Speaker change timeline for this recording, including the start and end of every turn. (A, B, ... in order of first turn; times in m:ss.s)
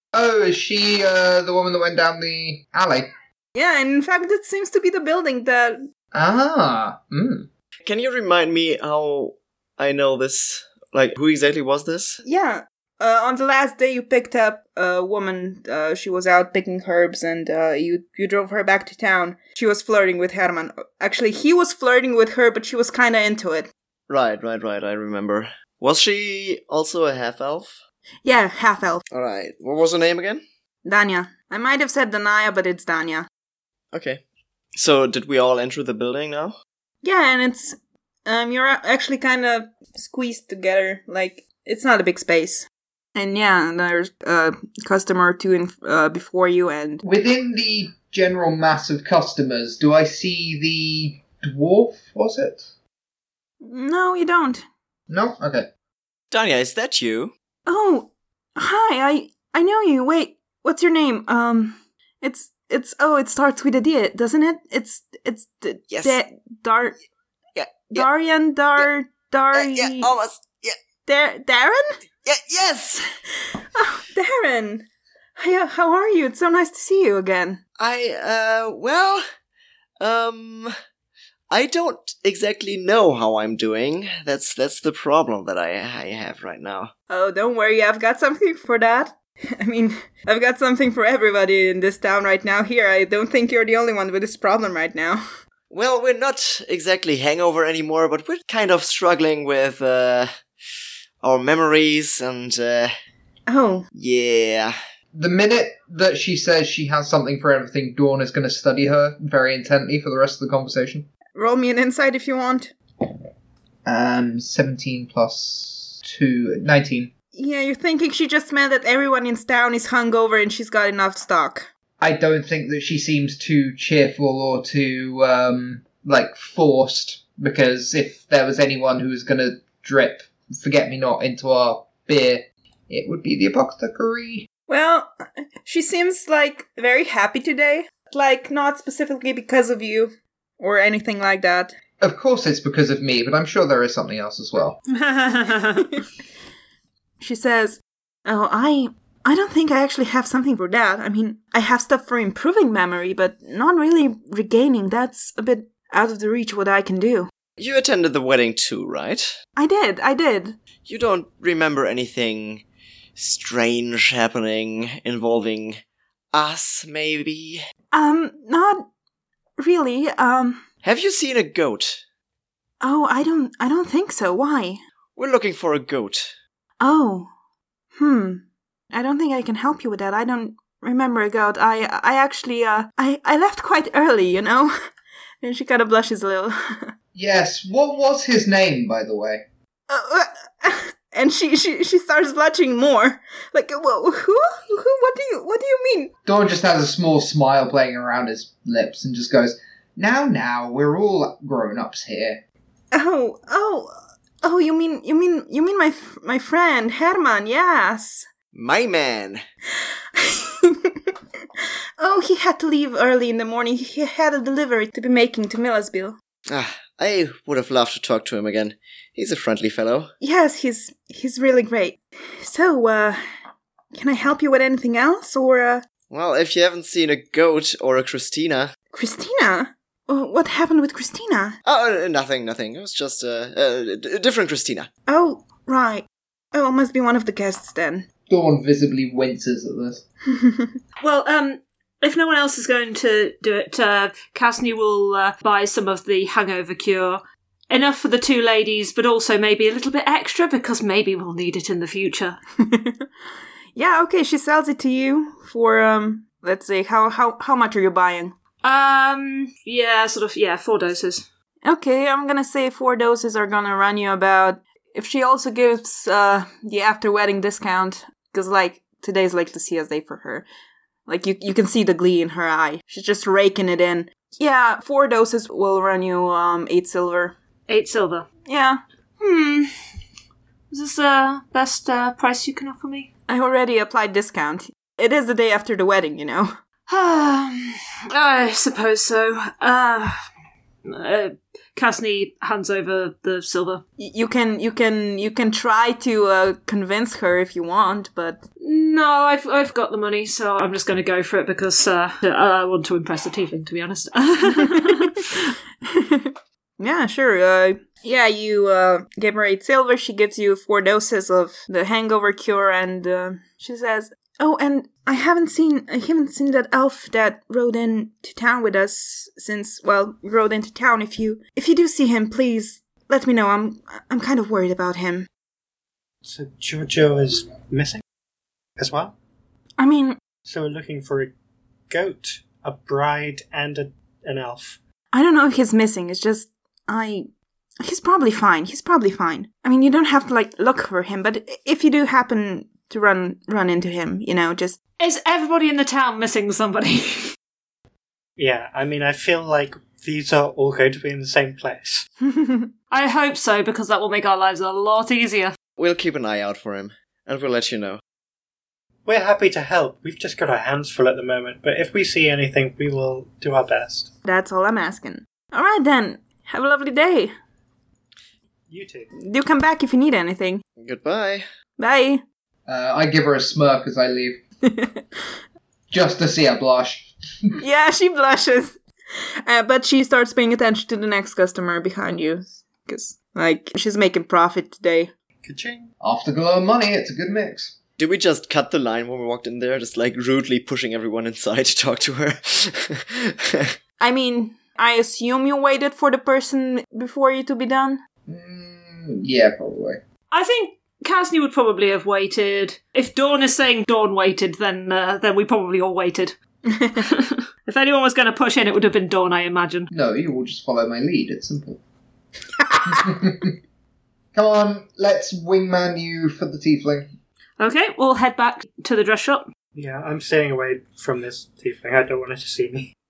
0:00.1-0:03.1 A
0:03.6-0:05.8 B
0:06.1-0:07.5 A
0:07.8-0:12.2 C
0:12.2-0:23.7 B
0:24.1-0:27.8 C
0:28.2-0:29.0 B
0:29.1-0:30.4 C
0:30.8-0:33.3 B
0:33.9-0:34.2 C
0:34.8-0:36.6 C
0:37.0-0:47.0 B
0:47.0-0:52.7 A
0:53.6-0:54.6 B
0:55.1-0:55.7 A
0:56.3-0:57.3 C
0:57.7-1:07.0 B
1:05.9-1:06.2 C
1:07.6-1:08.1 C
1:07.9-1:10.1 B
1:09.5-1:10.8 C
1:11.1-1:12.0 B
1:12.2-1:13.0 C
1:13.7-1:14.9 B
1:15.4-1:17.6 B
1:17.8-1:19.2 C
1:20.0-1:20.7 C
1:21.5-1:26.9 C
1:27.1-1:35.2 B
1:35.7-1:40.3 C
1:41.2-1:42.9 C
1:43.5-1:43.9 B
1:44.0-1:44.8 C
1:45.1-1:51.1 A
1:51.4-1:52.7 B
1:53.8-1:57.1 A
1:57.3-2:01.7 B
2:02.0-2:14.5 A
2:14.7-2:15.1 B
2:15.6-2:21.7 B
2:22.0-2:24.8 A
2:24.9-2:25.9 D
2:25.8-2:26.0 B
2:27.2-2:37.3 B
2:37.6-2:39.4 C
2:39.6-2:40.6 B
2:40.8-2:42.6 C
2:43.2-2:45.8 C
2:46.3-2:47.6 C
2:47.9-2:48.9 B
2:49.6-2:50.6 B
2:50.8-2:52.0 C
2:52.8-2:54.8 B
2:55.2-2:56.4 C
2:56.8-2:57.3 B
2:58.0-3:04.7 B
3:05.4-3:06.9 B
3:07.1-3:09.4 A
3:09.9-3:16.1 B
3:16.3-3:22.4 A
3:22.9-3:28.3 B
3:28.5-3:29.4 C
3:30.2-3:36.2 B
3:36.5-3:40.1 C
3:40.2-3:43.2 B
3:43.9-3:45.9 B
3:46.1-3:48.7 C
3:48.9-3:51.6 B
3:51.6-3:54.9 C
3:55.1-3:58.1 B
3:58.3-4:00.0 A
4:00.4-4:00.7 B
4:01.0-4:12.4 D
4:12.6-4:13.1 B
4:13.8-4:18.4 B
4:18.6-4:21.2 D
4:21.6-4:30.5 B
4:31.1-4:37.4 B
4:37.7-4:38.3 D
4:38.5-4:39.7 B
4:40.7-4:43.1 D
4:43.3-4:46.5 B
4:46.9-4:50.2 D
4:50.8-4:53.8 D
4:54.0-4:58.4 B
4:58.6-5:05.3 D
5:04.6-5:05.0 B
5:05.8-5:25.3 B
5:26.2-5:28.0 E
5:28.8-5:29.1 E
5:29.8-5:30.2 B
5:30.5-5:31.3 E
5:31.9-5:34.8 E
5:35.1-5:37.3 B
5:37.8-5:44.8 B
5:45.0-5:47.3 D
5:48.4-5:52.1 E
5:52.2-5:52.7 B
5:52.9-5:55.6 D
5:55.8-5:58.0 C
5:59.1-6:04.1 E
6:04.2-6:07.3 B
6:08.7-6:09.1 E
6:09.2-6:10.6 B
6:10.8-6:11.4 C
6:11.8-6:12.2 B
6:12.7-6:14.4 A
6:14.6-6:15.2 B
6:15.9-6:17.6 A
6:17.6-6:25.1 B
6:25.4-6:25.9 E
6:26.0-6:27.8 A
6:28.0-6:33.7 C
6:34.0-6:38.0 B
6:38.3-6:40.0 A
6:40.3-6:46.4 D
6:46.7-6:47.0 B
6:47.0-6:49.9 D
6:49.9-6:51.8 A
6:52.8-6:53.6 A
6:54.3-6:57.1 A
6:57.6-6:59.5 D
6:59.8-7:02.9 E